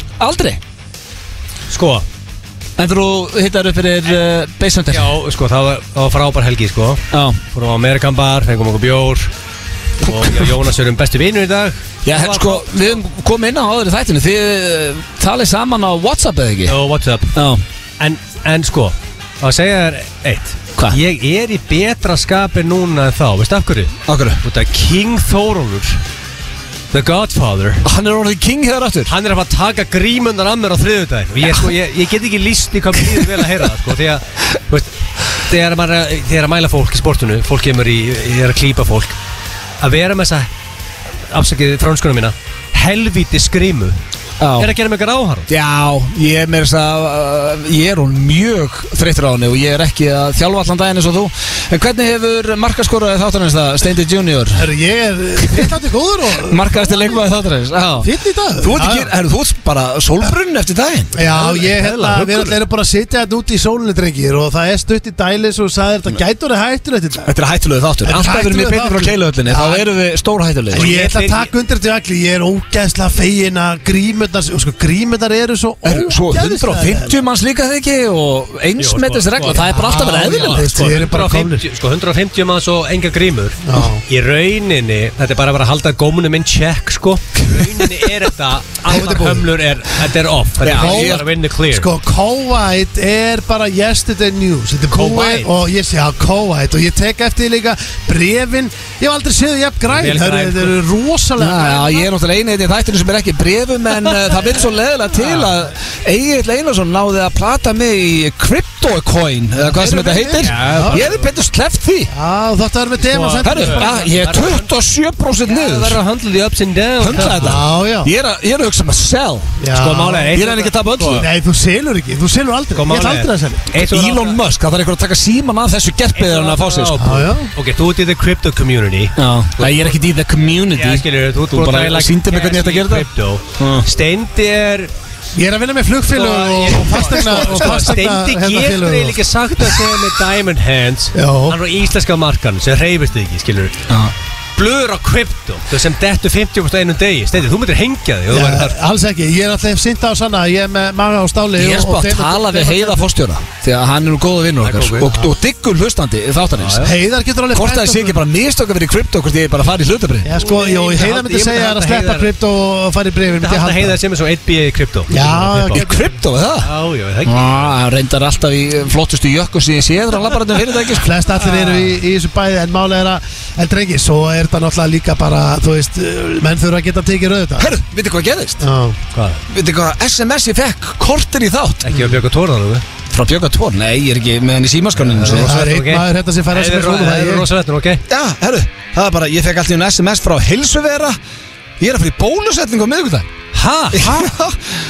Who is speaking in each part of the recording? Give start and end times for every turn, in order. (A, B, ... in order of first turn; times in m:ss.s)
0:00.2-0:00.6 A
0:01.7-0:02.0 B
0:02.8-0:05.1 A
0:04.9-0:07.0 B
0:07.1-0:07.4 A
0:07.5-0:09.3 B
0:10.0-0:12.9 B
0:12.0-0:16.8 A
0:16.6-0:17.3 B
0:17.3-0:17.6 A
0:18.0-0:26.0 B
0:24.0-0:24.4 A
0:26.9-0:27.8 B
0:27.8-0:29.1 A
0:29.1-0:34.9 B
0:35.4-0:39.1 B
0:39.8-0:40.5 B
0:41.3-0:44.0 B
0:44.4-0:44.7 A
0:44.6-0:45.5 B
0:45.5-0:54.6 A
0:54.6-0:56.6 C
0:56.4-0:58.1 A
0:58.0-0:59.1 C
0:58.6-1:01.1 A
1:01.1-1:07.3 C
1:01.2-1:02.6 B
1:07.2-1:10.9 A
1:08.0-1:09.8 C
1:10.7-1:11.5 B
1:10.7-1:17.1 C
1:15.8-1:20.9 A
1:18.8-1:31.9 B
1:19.5-1:21.6 C
1:23.6-1:24.0 C
1:28.8-1:29.5 C
1:30.6-1:31.2 A
1:30.7-1:42.0 C
1:34.9-1:35.5 B
1:39.9-1:40.8 B
1:41.4-1:52.1 A
1:45.2-1:45.5 B
1:49.7-1:51.0 C
1:50.4-1:51.2 B
1:52.1-1:53.9 C
1:53.0-1:54.7 B
1:53.4-1:56.0 A
1:55.5-1:57.6 B
1:57.0-2:01.2 A
1:57.2-1:58.1 C
1:59.6-2:00.3 C
1:59.8-2:01.2 B
2:01.1-2:03.7 C
2:02.7-2:04.4 B
2:03.7-2:07.0 A
2:06.2-2:10.0 B
2:07.0-2:07.5 C
2:09.2-2:13.8 A
2:10.7-2:14.9 B
2:15.3-2:19.8 C
2:16.1-2:23.8 B
2:17.1-2:17.7 A
2:21.1-2:21.6 C
2:24.6-2:28.8 B
2:28.3-2:33.1 C
2:31.6-2:36.9 A
2:34.6-2:35.1 B
2:36.6-2:36.9 B
2:36.8-2:38.2 C
2:37.5-2:40.3 A
2:40.2-2:44.0 C
2:40.4-2:42.3 B
2:43.4-2:45.8 B
2:45.1-2:46.0 C
2:45.7-2:46.7 A
2:46.6-2:47.7 B
2:47.2-2:51.1 A
2:51.0-2:57.7 C
2:51.4-2:51.9 B
2:57.6-2:58.6 A
2:58.6-2:59.0 C
2:59.1-2:59.4 B
2:59.5-3:01.9 A
3:01.8-3:02.8 B
3:03.1-3:05.6 A
3:05.0-3:08.0 B
3:05.2-3:07.4 C
3:08.1-3:11.2 A
3:11.8-3:13.3 A
3:13.5-3:14.3 B
3:13.9-3:14.8 A